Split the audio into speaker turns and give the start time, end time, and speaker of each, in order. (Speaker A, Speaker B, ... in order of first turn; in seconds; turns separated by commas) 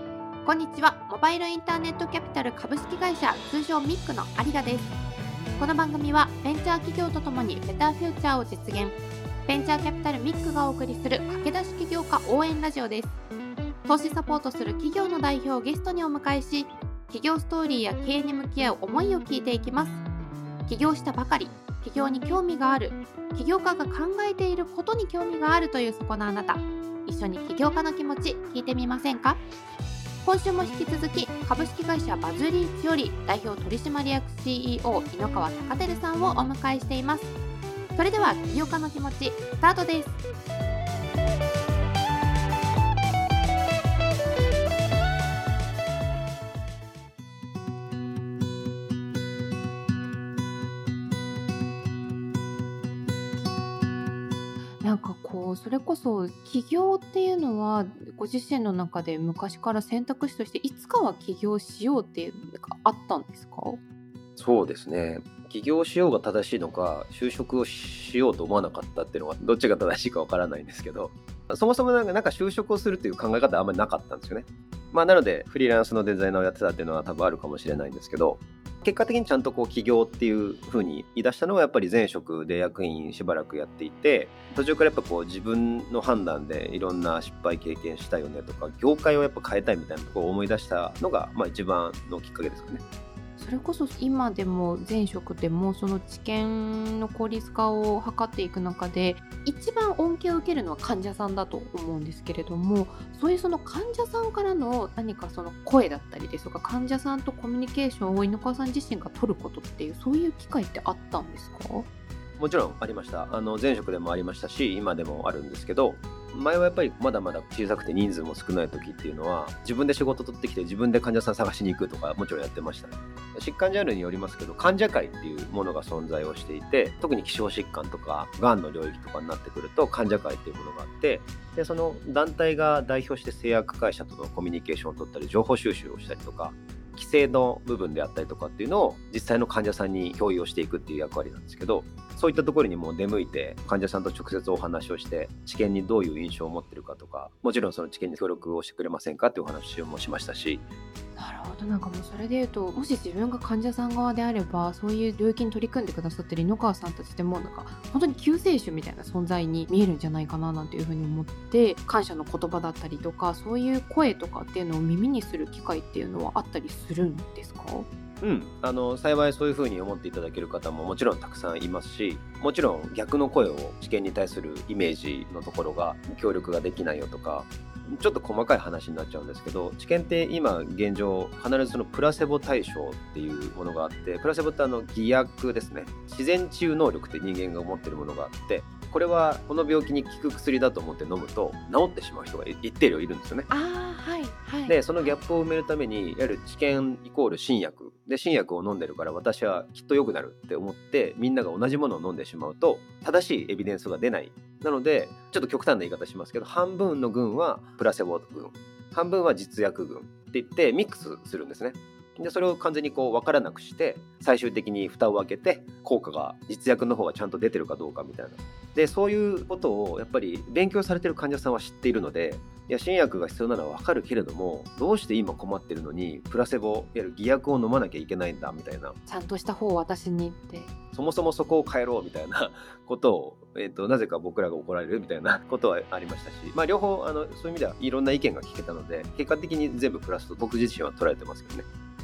Speaker A: 0.4-4.9, Speaker A: 5.6-13.2, Speaker A: 13.8-20.0, Speaker A: 20.7-29.4, Speaker A: 30.2-37.3, Speaker A: 37.9-40.2, Speaker A: 54.8-63.8, Speaker B: 64.4-92.8, Speaker A: 93.4-111.9, Speaker B: 112.4-150.7, Speaker A: 151.2-167.9, Speaker B: 168.2-193.5, Speaker A: 193.5-195.2, Speaker B: 194.7-229.0, Speaker A: 229.1-230.7, Speaker B: 230.9-241.7